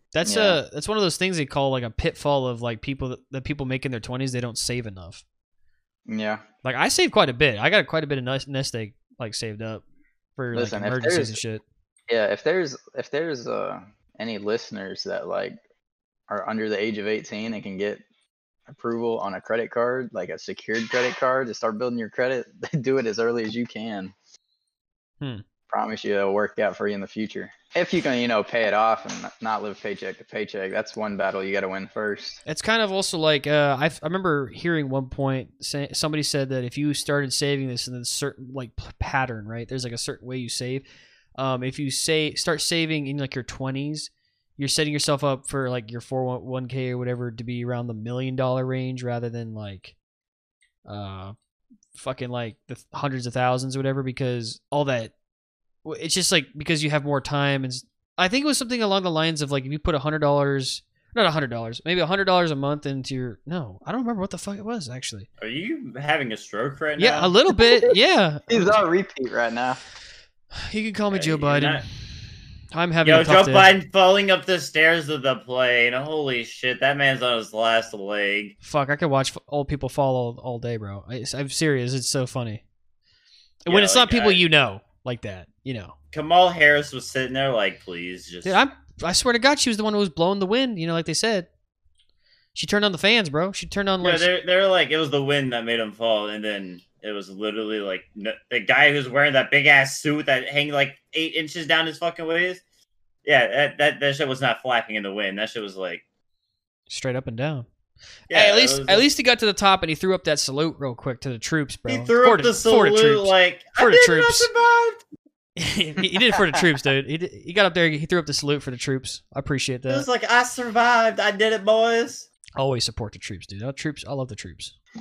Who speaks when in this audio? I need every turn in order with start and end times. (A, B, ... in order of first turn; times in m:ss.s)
0:00.1-0:05.2 A
0:00.2-0:00.6 B
0:06.1-0:06.4 B
0:06.6-0:09.8 A
0:10.4-0:11.6 A
0:10.5-0:11.4 B
0:12.1-0:15.6 B
0:16.3-0:18.0 B
0:18.7-0:24.1 B
0:25.7-0:32.4 B
0:32.4-0:40.8 A
0:41.4-0:49.9 A
0:50.8-0:51.3 A
0:52.0-0:55.1 A
0:55.8-1:05.3 A
1:05.4-1:07.3 C
1:07.0-1:08.6 A
1:07.6-1:07.9 B
1:08.5-1:09.8 B
1:10.5-1:11.8 A
1:11.1-1:11.8 C
1:12.7-1:13.7 A
1:13.0-1:18.5 C
1:18.6-1:22.6 A
1:23.6-1:25.9 A
1:23.7-1:24.4 C
1:26.1-1:28.6 C
1:28.4-1:31.5 A
1:32.5-1:34.3 A
1:34.0-1:42.6 C
1:43.2-1:46.0 C
1:46.9-1:47.6 A
1:48.3-1:49.1 C
1:48.3-1:54.5 A
1:51.9-1:55.0 C
1:55.6-2:00.1 A
1:56.2-1:56.6 B
1:59.9-2:02.3 C
2:02.6-2:04.7 A